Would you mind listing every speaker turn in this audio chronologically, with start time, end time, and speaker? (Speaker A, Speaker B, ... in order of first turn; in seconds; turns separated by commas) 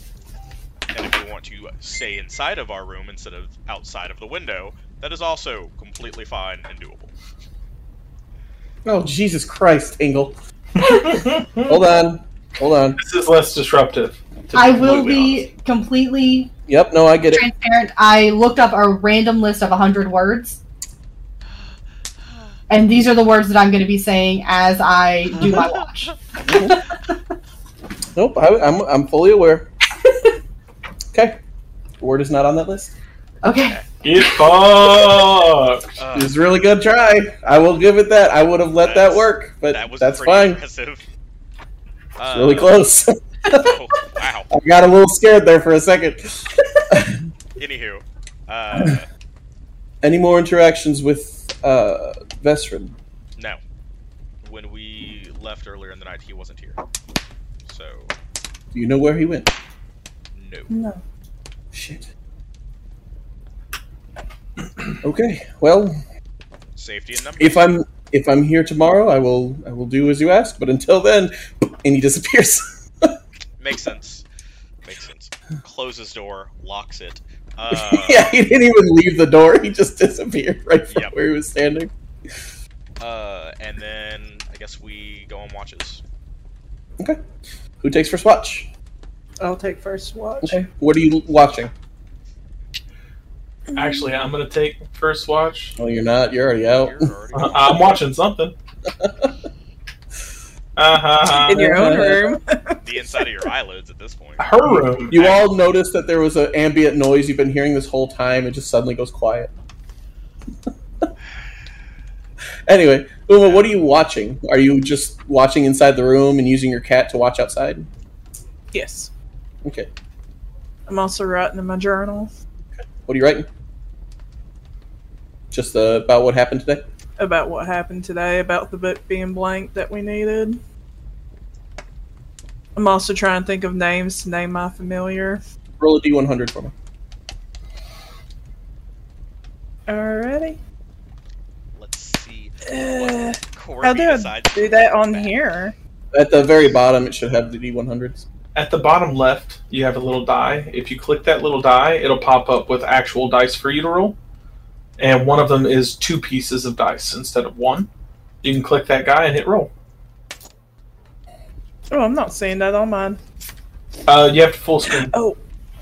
Speaker A: 0.9-7.1, Speaker B: 8.8-10.4, Speaker C: 10.8-11.8, Speaker B: 11.7-13.0, Speaker C: 13.0-15.2, Speaker D: 14.5-16.5, Speaker A: 14.7-15.5, Speaker B: 16.7-17.4, Speaker D: 17.3-20.6, Speaker A: 22.2-22.5, Speaker D: 22.7-27.0, Speaker A: 25.4-26.1, Speaker B: 26.5-26.8, Speaker B: 28.1-29.7, Speaker B: 31.1-31.4, Speaker B: 32.0-32.9, Speaker D: 33.4-33.8, Speaker C: 34.0-36.0, Speaker A: 36.0-36.3, Speaker B: 36.1-40.6, Speaker A: 38.8-41.1, Speaker A: 42.2-42.8, Speaker B: 42.3-43.8, Speaker A: 43.5-44.5, Speaker B: 44.5-47.2, Speaker A: 47.6-49.1, Speaker B: 48.7-49.0, Speaker B: 50.0-53.0, Speaker A: 54.4-56.8, Speaker A: 57.6-58.1, Speaker B: 58.7-59.5, Speaker A: 60.3-60.7, Speaker E: 60.7-61.0, Speaker B: 61.7-62.1, Speaker B: 65.0-66.0, Speaker A: 66.8-67.6, Speaker B: 67.4-73.2, Speaker A: 73.6-74.3, Speaker A: 74.8-78.3, Speaker B: 77.7-81.9, Speaker A: 80.9-81.2, Speaker A: 83.0-86.0, Speaker B: 87.8-88.7, Speaker E: 89.4-90.6, Speaker B: 90.4-91.7, Speaker E: 93.7-94.1, Speaker C: 93.8-95.8, Speaker B: 95.8-97.1, Speaker A: 96.7-98.0, Speaker C: 97.3-98.5, Speaker B: 99.0-99.3, Speaker C: 100.8-102.0, Speaker E: 101.3-102.8, Speaker B: 101.5-102.3, Speaker A: 102.8-104.6, Speaker C: 104.4-105.2, Speaker B: 104.7-109.5, Speaker A: 105.1-105.5, Speaker B: 112.7-117.9, Speaker A: 113.4-113.7, Speaker E: 118.7-119.1, Speaker B: 119.6-119.9, Speaker E: 120.9-122.3, Speaker B: 123.1-123.5, Speaker B: 125.5-126.8, Speaker E: 127.2-130.6, Speaker E: 132.8-135.4, Speaker B: 135.8-136.7, Speaker E: 139.9-140.6, Speaker A: 141.8-145.5, Speaker E: 142.7-145.8, Speaker B: 146.1-148.2, Speaker C: 148.6-154.2, Speaker C: 155.0-157.9, Speaker C: 158.4-159.7, Speaker E: 161.9-163.2, Speaker C: 164.1-165.1, Speaker E: 165.1-165.4